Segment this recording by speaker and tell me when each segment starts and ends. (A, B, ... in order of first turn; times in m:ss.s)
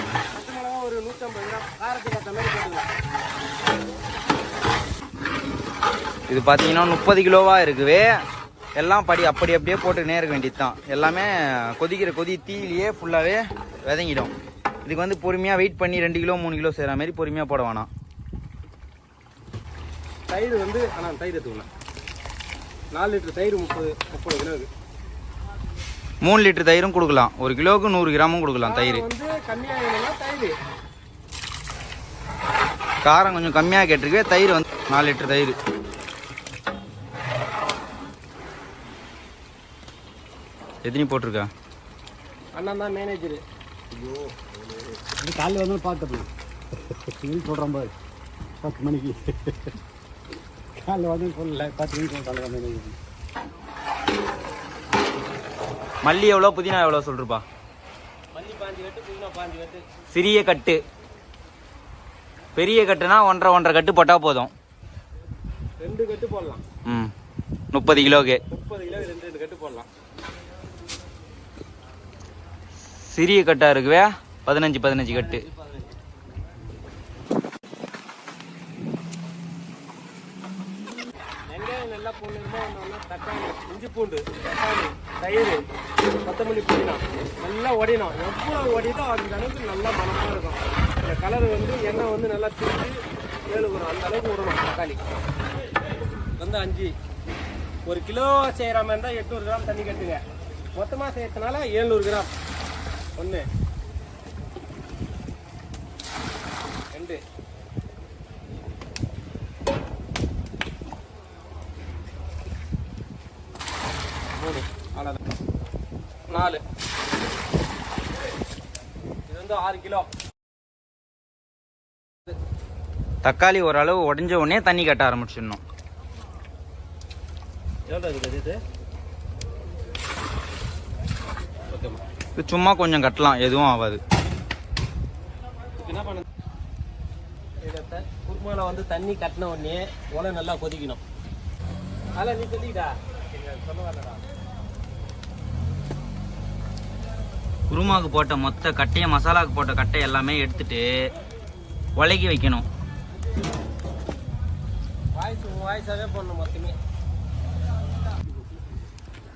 0:00.3-0:02.9 A
0:06.3-0:08.1 B
0:08.8-0:14.3 B
0:14.8-0:17.9 B
0:20.3-0:21.7 A
0:22.9-0:24.7 A
0:26.2-0:29.0 B
0:28.6-0:30.6 A
0:33.0-0:35.6 B
0:40.8-0:41.5 B
0:42.6-0:43.4 A
0:43.9-0:44.5 C
0:45.0-0:46.3 C
0:46.9-0:47.9 C
0:48.6-0:49.8 C
0:50.8-0:53.0 C
0:56.0-0:57.4 B
0:58.3-0:59.8 A
1:00.1-1:00.8 B
1:02.6-1:04.5 B
1:05.8-1:06.6 A
1:06.9-1:07.1 B
1:07.7-1:08.4 B
1:08.5-1:09.9 A
1:13.0-1:15.4 B
1:21.4-1:25.6 A
1:26.2-1:35.0 A
1:36.4-1:36.9 A
1:37.9-1:40.2 A
1:40.8-1:42.3 A
1:43.2-1:43.5 A
1:46.9-1:47.2 A
1:54.3-1:55.2 A
1:56.3-1:56.6 A
1:59.3-2:00.1 A
2:03.2-2:05.6 B
2:07.9-2:08.6 A
2:11.7-2:12.0 A
2:12.4-2:14.0 B
2:15.8-2:16.2 A
2:17.6-2:21.0 A
2:22.2-2:24.2 A
2:27.7-2:31.0 B
2:32.0-2:32.7 B
2:35.1-2:36.8 A